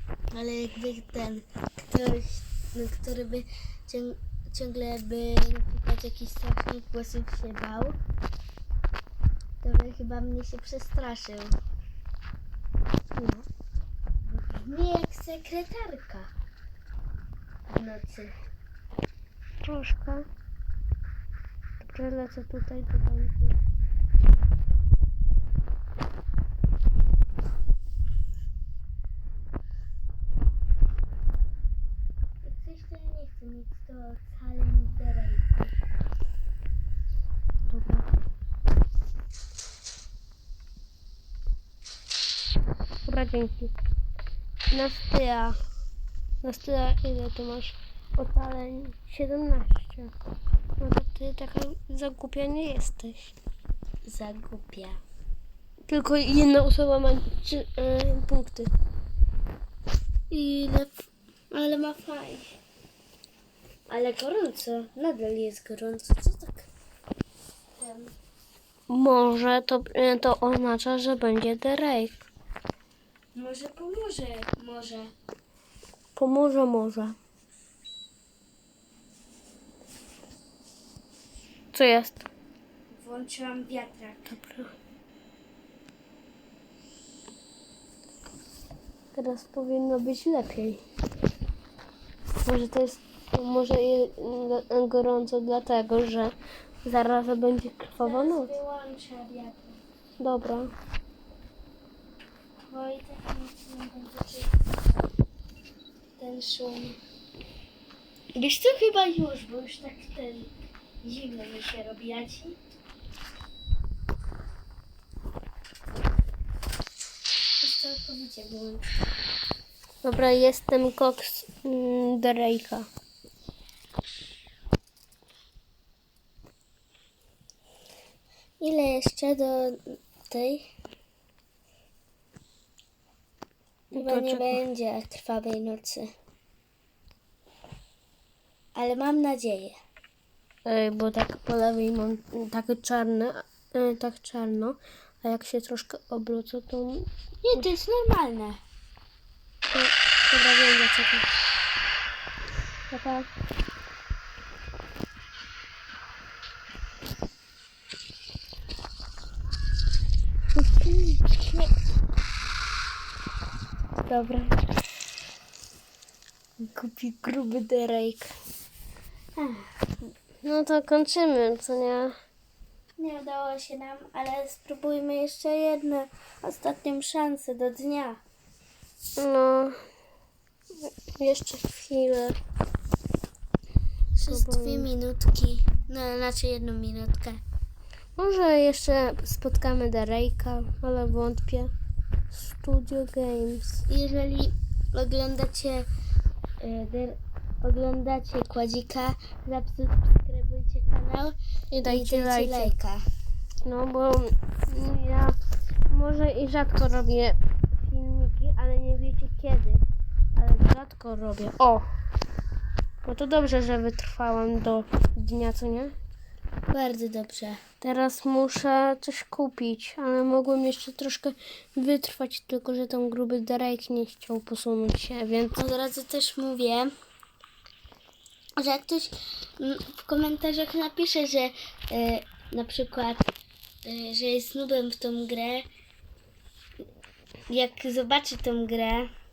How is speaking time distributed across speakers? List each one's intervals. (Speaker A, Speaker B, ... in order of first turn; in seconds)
Speaker A: 0.3-8.0, 9.6-11.5, 14.2-16.3, 17.7-18.3, 32.4-35.7, 54.0-55.0, 60.3-62.6, 63.9-66.7, 67.8-68.1, 73.3-75.1, 82.9-84.4, 98.0-99.8, 102.7-105.1, 106.2-107.0, 108.3-110.5, 111.0-112.6, 117.6-118.9, 128.6-130.7, 133.9-136.1, 138.8-139.8, 147.4-148.6, 166.6-168.3, 169.4-169.7, 173.0-178.2, 184.2-187.4, 193.9-195.9, 196.6-203.0, 216.7-217.6, 225.5-226.9, 228.6-233.3, 233.8-235.7, 237.5-239.1
Speaker B: 13.2-13.5, 19.7-20.3, 21.8-23.6, 37.7-38.1, 43.1-43.7, 44.7-45.6, 46.4-50.1, 50.8-53.3, 55.9-58.7, 68.9-72.2, 76.2-77.2, 81.7-82.3, 84.3-84.7, 89.1-90.8, 92.4-98.5, 100.2-100.7, 120.0-122.9, 133.9-134.6, 140.7-147.1, 149.7-151.3, 152.9-153.3, 160.6-161.7, 164.0-164.6, 170.4-172.2, 179.2-179.8, 180.8-182.4, 184.3-184.9, 188.2-191.7, 192.3-193.8, 201.7-202.7, 203.6-205.4, 205.9-209.8, 210.4-211.9, 213.1-215.9, 217.8-225.6